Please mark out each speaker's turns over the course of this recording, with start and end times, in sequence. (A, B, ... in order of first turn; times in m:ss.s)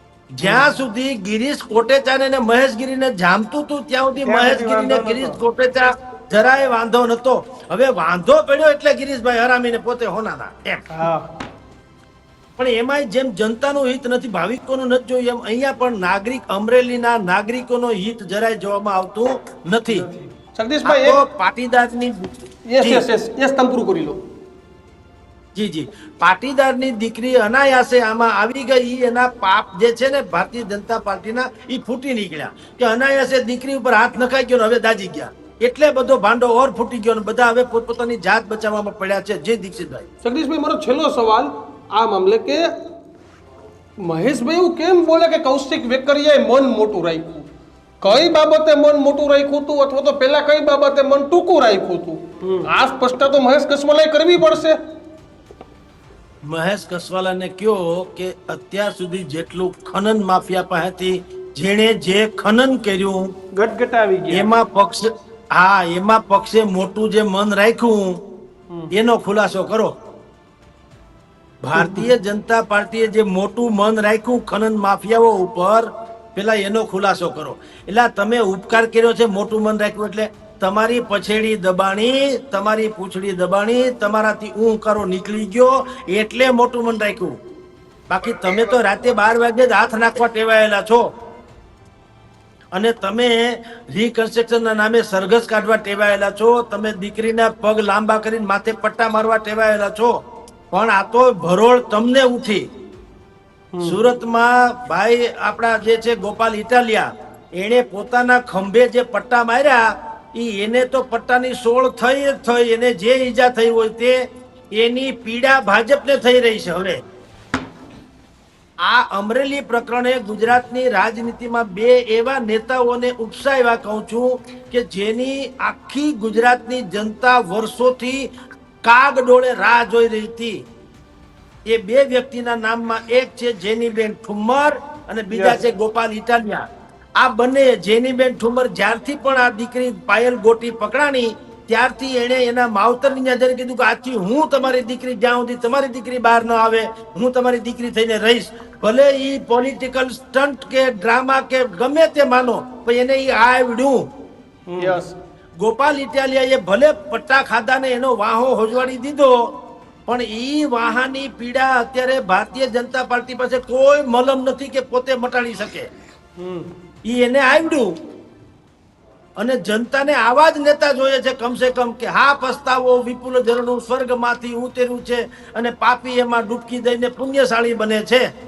0:00.4-0:10.8 A
0:04.2-0:05.4 B
0:10.9-0:11.3 B
0:12.6-0:20.1 A
0:19.9-0:20.3 B
0:20.5-0:21.2 C
0:20.8-0:23.0 A
0:22.7-0:24.2 C
0:25.5-0:40.1 A
0:40.2-0:42.8 C
0:44.0-0:47.4 C
0:48.0-0:54.8 C
0:52.4-0:52.7 B
0:56.4-1:03.3 A
1:03.5-1:04.5 B
1:04.3-1:08.2 A
1:08.9-1:09.9 A
1:11.6-1:27.4 A
1:11.8-1:12.0 B
1:28.1-1:31.1 A
1:32.7-1:40.2 A
1:40.7-1:42.6 A
1:43.8-1:54.2 A
1:54.7-1:57.0 A
1:58.8-2:08.3 A
2:08.8-2:10.6 A
2:11.7-2:16.6 A
2:15.3-2:15.6 B
2:17.2-2:34.0 A
2:34.7-2:35.0 B
2:34.7-2:35.2 C
2:35.6-2:39.4 A
2:40.1-2:45.9 A
2:47.0-2:47.9 A
2:49.4-2:58.2 A